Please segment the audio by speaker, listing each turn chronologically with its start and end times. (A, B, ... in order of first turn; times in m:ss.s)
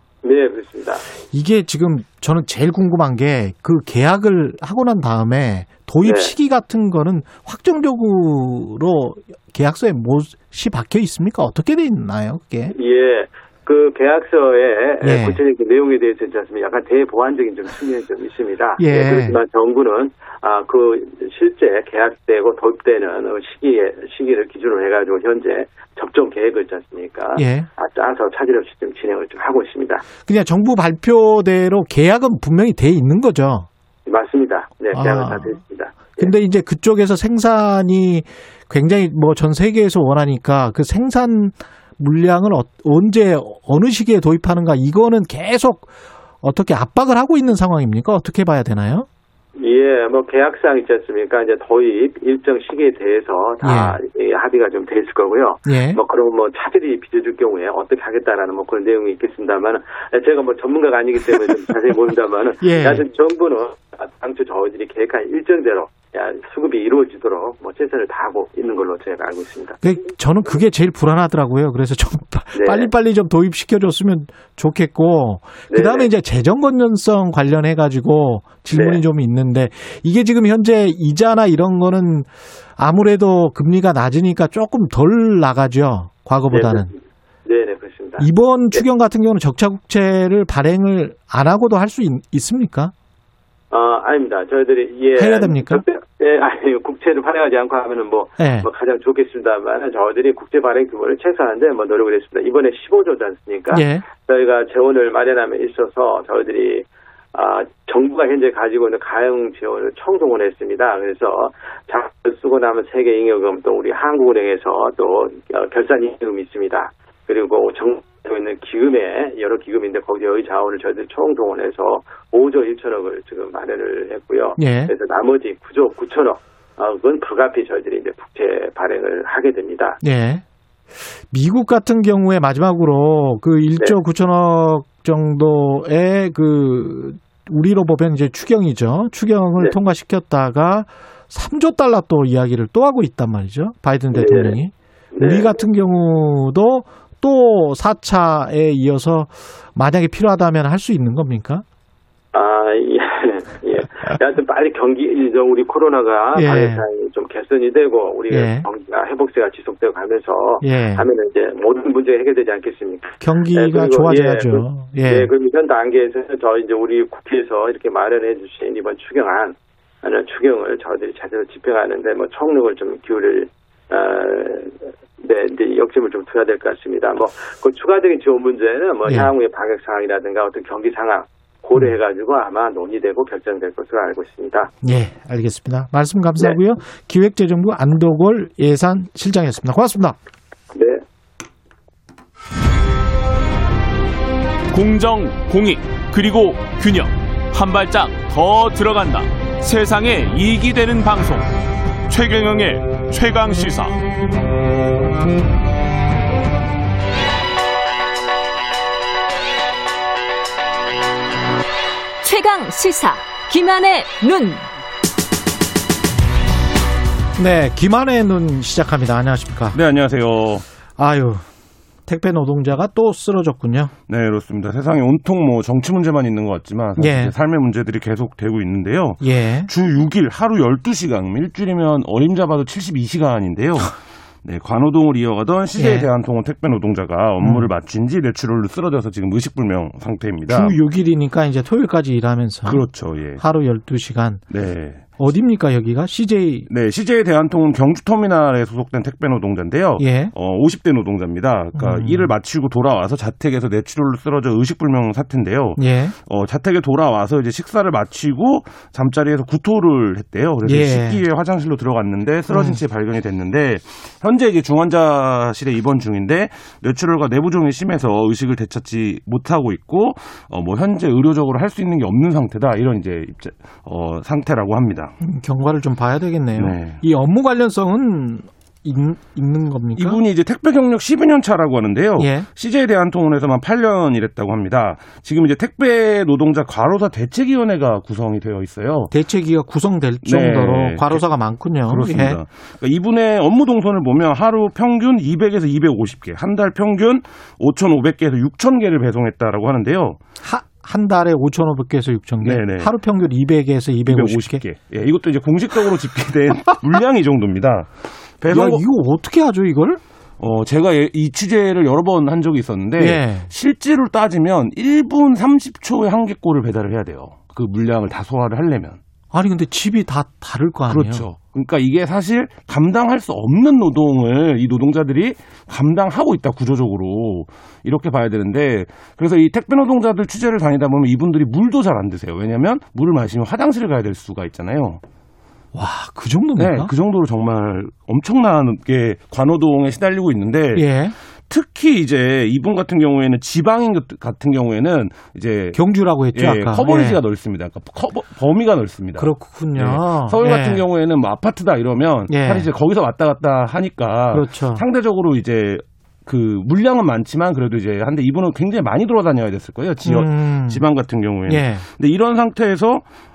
0:00.2-0:01.1 A
0:01.3-0:12.8 B
0:06.0-0:06.3 A
0:12.7-0:30.0 A
0:15.0-0:15.4 B
0:18.8-0:19.4 B
0:27.4-0:27.7 B
0:30.2-0:33.7 B
0:34.1-0:36.3 A
0:34.9-0:35.6 B
0:36.2-0:49.1 B
0:49.6-1:09.8 A
0:53.6-0:54.0 B
0:55.7-0:56.0 B
1:02.6-1:03.0 B
1:09.8-1:26.9 B
1:12.5-1:12.9 A
1:15.7-1:16.1 A
1:18.7-1:19.0 A
1:26.5-1:28.8 A
1:28.2-1:32.9 B
1:33.7-2:10.0 A
1:35.2-1:35.8 B
1:38.4-1:38.7 B
1:43.7-1:44.0 B
2:04.6-2:04.9 B
2:10.0-2:10.4 B
2:11.3-2:31.6 B
2:24.1-2:24.6 A
2:25.1-2:25.6 A
2:32.3-3:04.7 A
2:36.4-2:36.8 B
2:38.3-2:38.7 B
2:40.6-2:41.1 B
2:43.2-2:45.3 B
2:59.1-2:59.3 B
3:04.8-3:10.2 B
3:10.7-3:11.0 A
3:14.7-3:21.5 C
3:22.1-3:24.0 C
3:32.2-3:34.7 D
3:37.4-3:39.8 B
3:39.7-3:40.7 E
3:41.0-3:41.4 B
3:42.1-3:43.9 B
3:44.1-4:00.8 E
3:47.0-3:47.3 B
3:49.2-3:49.7 B
3:55.8-3:56.1 B
3:57.4-3:57.7 B
4:00.5-4:02.9 B
4:02.7-4:03.4 E
4:03.4-4:04.4 B
4:04.5-4:05.0 E
4:05.2-4:06.7 B
4:06.7-4:35.2 E
4:10.0-4:10.3 B
4:11.8-4:12.3 B
4:15.8-4:16.1 B
4:20.6-4:21.2 B
4:22.5-4:22.8 B
4:35.2-4:40.2 B
4:36.6-4:37.0 E
4:40.0-4:49.1 E
4:42.2-4:42.5 B
4:49.1-4:52.4 B
4:50.2-4:51.2 E
4:51.9-5:00.2 E
5:00.4-5:04.6 B
5:02.4-5:02.9 E
5:04.1-5:08.8 E
5:08.5-5:10.0 B
5:10.4-5:19.0 E
5:13.0-5:13.5 B
5:19.3-5:21.2 B
5:20.9-5:35.0 E
5:35.7-5:36.9 B
5:36.6-5:40.8 E
5:40.8-5:41.2 B
5:41.5-5:45.8 E
5:45.8-5:47.2 B
5:46.3-6:03.0 E
5:49.2-5:50.8 B
5:52.3-5:52.7 B
5:54.3-5:54.8 B
6:00.0-6:00.8 B
6:01.5-6:01.8 B